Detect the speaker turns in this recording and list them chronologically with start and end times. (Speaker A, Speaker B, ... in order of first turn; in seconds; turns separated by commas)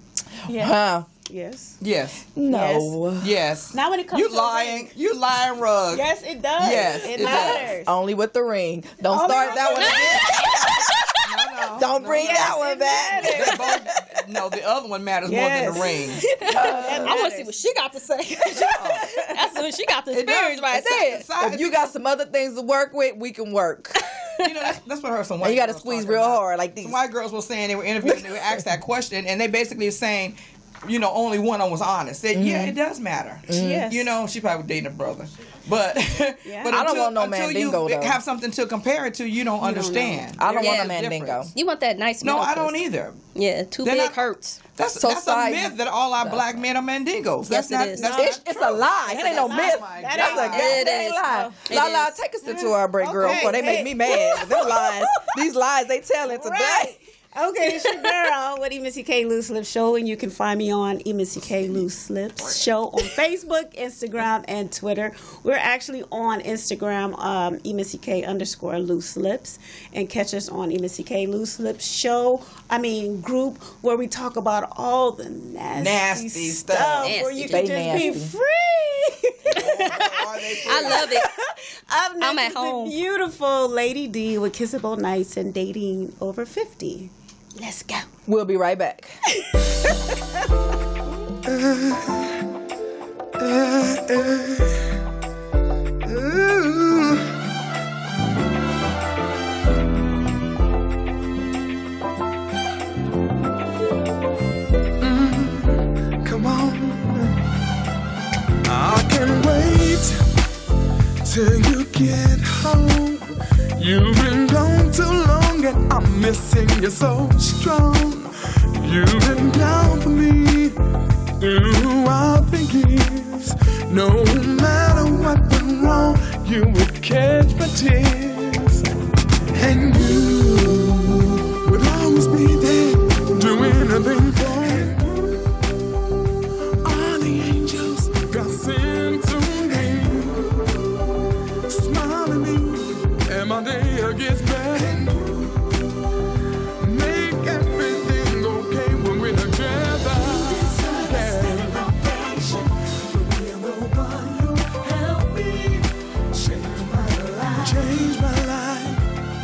Speaker A: 0.5-1.1, Speaker B: 0.5-1.8, Speaker C: 1.8-2.3, Speaker A: 2.3-3.4, Speaker B: 2.5-3.0, Speaker C: 3.2-6.0, Speaker B: 3.7-4.9, Speaker B: 5.9-7.9, Speaker C: 6.6-7.7, Speaker A: 7.1-11.1, Speaker B: 9.1-10.9, Speaker C: 9.2-12.6, Speaker D: 9.8-10.3, Speaker A: 11.7-13.9, Speaker B: 12.0-13.7, Speaker C: 13.2-16.2, Speaker B: 15.2-17.5, Speaker D: 16.2-21.2, Speaker A: 16.4-17.2, Speaker B: 18.4-19.4, Speaker C: 18.7-19.1, Speaker C: 20.1-21.9, Speaker A: 20.7-24.0, Speaker C: 24.4-41.5, Speaker A: 25.4-27.0, Speaker A: 28.0-28.6, Speaker A: 32.3-32.8, Speaker A: 33.5-33.9, Speaker B: 33.5-34.1, Speaker B: 36.4-36.9, Speaker A: 36.6-38.2, Speaker B: 39.6-40.3, Speaker A: 40.4-41.5, Speaker D: 40.6-40.9, Speaker D: 41.5-42.8, Speaker C: 42.2-43.2, Speaker D: 43.3-44.6, Speaker C: 43.8-44.2, Speaker C: 44.8-50.9, Speaker A: 44.9-46.5, Speaker D: 47.4-48.1, Speaker B: 48.0-51.6, Speaker A: 48.0-57.0, Speaker D: 50.5-52.1, Speaker B: 52.4-55.3, Speaker C: 53.2-53.6, Speaker B: 56.2-88.0, Speaker C: 75.8-77.2, Speaker D: 77.0-78.2, Speaker A: 77.5-78.3, Speaker C: 79.5-81.1, Speaker D: 79.9-81.3, Speaker D: 82.2-83.0, Speaker A: 88.3-89.1, Speaker B: 89.5-90.1, Speaker E: 91.5-92.2, Speaker E: 93.4-94.7, Speaker E: 96.0-97.2, Speaker E: 105.0-107.4, Speaker E: 108.7-110.2, Speaker E: 111.2-120.8, Speaker E: 121.4-128.8, Speaker E: 129.5-135.1, Speaker E: 136.8-140.9, Speaker E: 141.7-145.8, Speaker E: 146.8-159.1